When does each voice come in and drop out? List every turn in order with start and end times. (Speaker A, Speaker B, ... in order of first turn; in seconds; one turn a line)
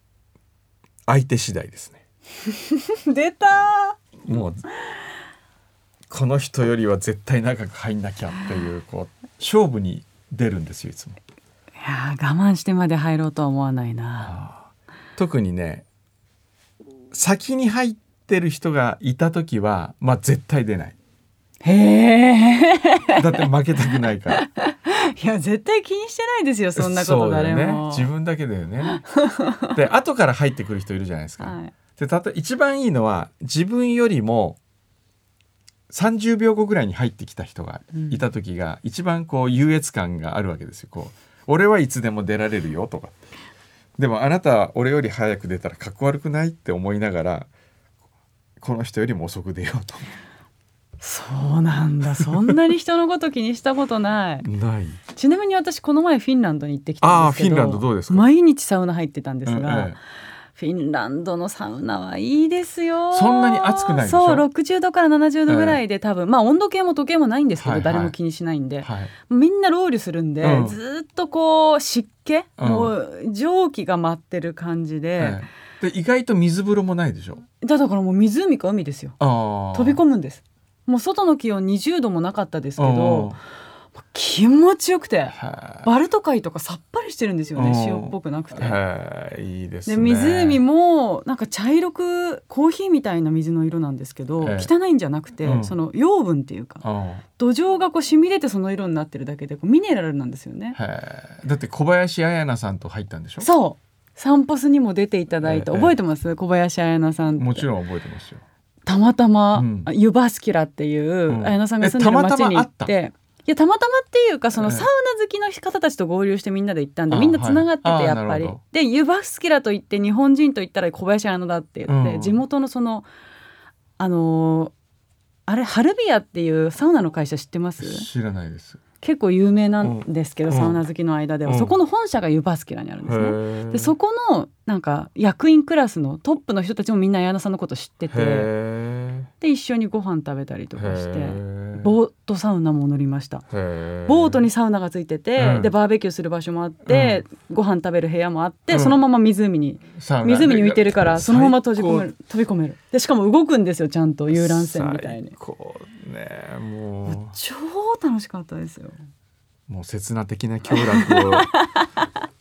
Speaker A: 1.1-2.0
Speaker B: 2.5-4.0
Speaker A: 4.2-4.7
Speaker A: 6.1-11.2
Speaker B: 11.8-14.4
Speaker A: 14.2-15.9
Speaker A: 17.1-21.0
Speaker B: 21.6-23.4
Speaker A: 23.2-24.4
Speaker B: 23.9-28.1
Speaker A: 26.8-29.0
Speaker B: 28.9-29.8
Speaker A: 29.7-34.6
Speaker B: 31.4-31.7
Speaker A: 35.9-43.1
Speaker A: 44.0-47.5
Speaker A: 48.6-50.1
Speaker B: 51.0-54.5
Speaker A: 52.2-52.6
Speaker A: 54.4-55.0
Speaker B: 55.1-60.0
Speaker A: 57.0-58.3
Speaker A: 59.5-60.0
Speaker B: 60.5-75.4
Speaker A: 63.1-64.5
Speaker A: 65.5-65.8
Speaker A: 67.6-68.2
Speaker A: 68.8-69.1
Speaker A: 70.4-70.8
Speaker A: 72.6-72.9
Speaker A: 75.2-77.5
Speaker B: 77.6-79.2
Speaker A: 79.2-80.0
Speaker B: 79.7-83.4
Speaker A: 82.8-83.4
Speaker B: 84.0-88.8
Speaker A: 85.3-85.9
Speaker A: 87.6-90.6
Speaker B: 89.9-96.8
Speaker A: 94.4-94.7
Speaker A: 95.4-95.7
Speaker A: 96.8-97.2
Speaker B: 97.4-100.8
Speaker A: 100.8-103.5
Speaker B: 103.4-107.7
Speaker A: 105.4-106.0
Speaker A: 107.4-108.4
Speaker B: 108.9-123.1
Speaker A: 109.5-109.9
Speaker A: 111.3-112.9
Speaker A: 114.6-114.9
Speaker A: 117.1-118.6
Speaker A: 121.9-122.4
Speaker B: 124.0-124.7
Speaker B: 125.5-128.1
Speaker A: 127.8-128.8
Speaker B: 129.0-138.5
Speaker A: 129.8-130.8
Speaker A: 131.4-131.7
Speaker A: 133.0-133.9
Speaker A: 138.1-139.3
Speaker B: 139.4-143.4
Speaker A: 140.8-142.0
Speaker A: 143.5-144.4
Speaker B: 144.1-155.3
Speaker A: 145.4-145.7
Speaker A: 146.8-147.2
Speaker A: 148.7-149.0
Speaker A: 149.9-152.1
Speaker A: 154.3-157.4
Speaker B: 157.1-159.0
Speaker A: 159.7-161.5
Speaker B: 160.7-161.9